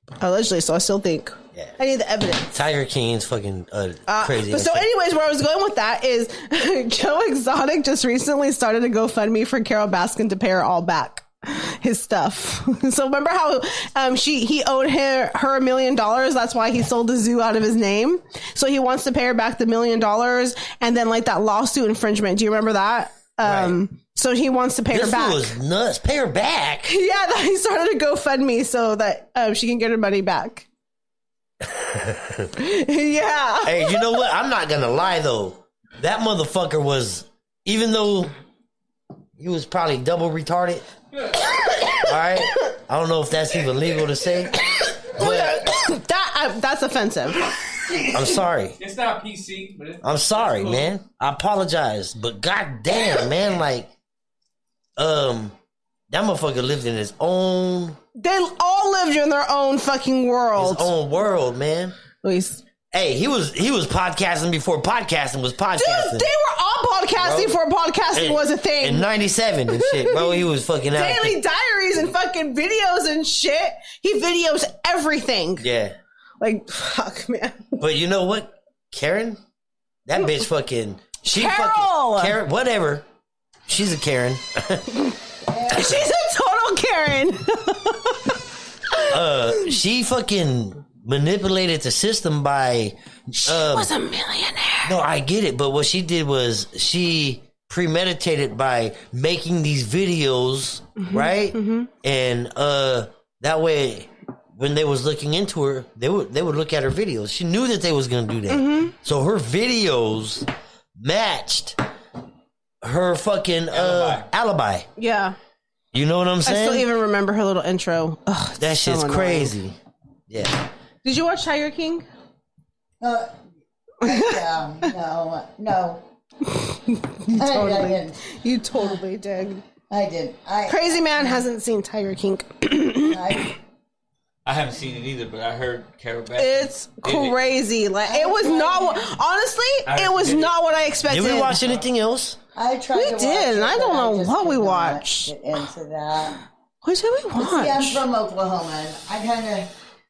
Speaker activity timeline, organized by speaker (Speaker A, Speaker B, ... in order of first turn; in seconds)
Speaker A: 0.2-2.5, 4.1-25.5, 26.9-30.7, 32.5-34.2, 41.6-42.1, 44.9-47.6, 58.2-60.9, 62.2-62.6, 65.8-69.1, 69.7-75.7, 76.4-77.8, 81.2-82.4, 85.7-88.4, 88.9-89.2, 93.4-95.0, 101.0-101.9, 108.5-109.0, 115.0-115.4, 116.5-119.5, 121.0-122.0, 124.1-124.4, 126.5-129.6, 130.7-133.5, 136.4-141.6, 142.9-145.3, 146.8-148.1
Speaker B: 2.5-4.9, 23.4-23.8, 24.9-26.9, 31.7-32.5, 33.6-38.3, 39.4-40.9, 42.0-45.7, 48.1-48.8, 50.0-53.9, 55.0-55.5, 56.1-58.0, 60.6-61.9, 62.9-66.3, 67.2-67.6, 68.1-71.4, 75.6-76.0, 77.8-79.4, 80.1-83.0, 83.7-85.0, 89.1-93.9, 94.8-111.8, 112.8-114.9, 115.9-116.9, 118.6-119.8, 120.3-120.6, 141.1-142.4
Speaker C: 48.8-50.9
Speaker D: 85.5-86.0, 123.0-123.3, 124.0-126.0, 127.3-128.2, 129.9-131.4, 133.1-133.6, 138.0-139.1, 142.6-146.4, 147.4-149.7
Speaker E: 113.7-114.3, 134.4-137.4, 139.9-140.5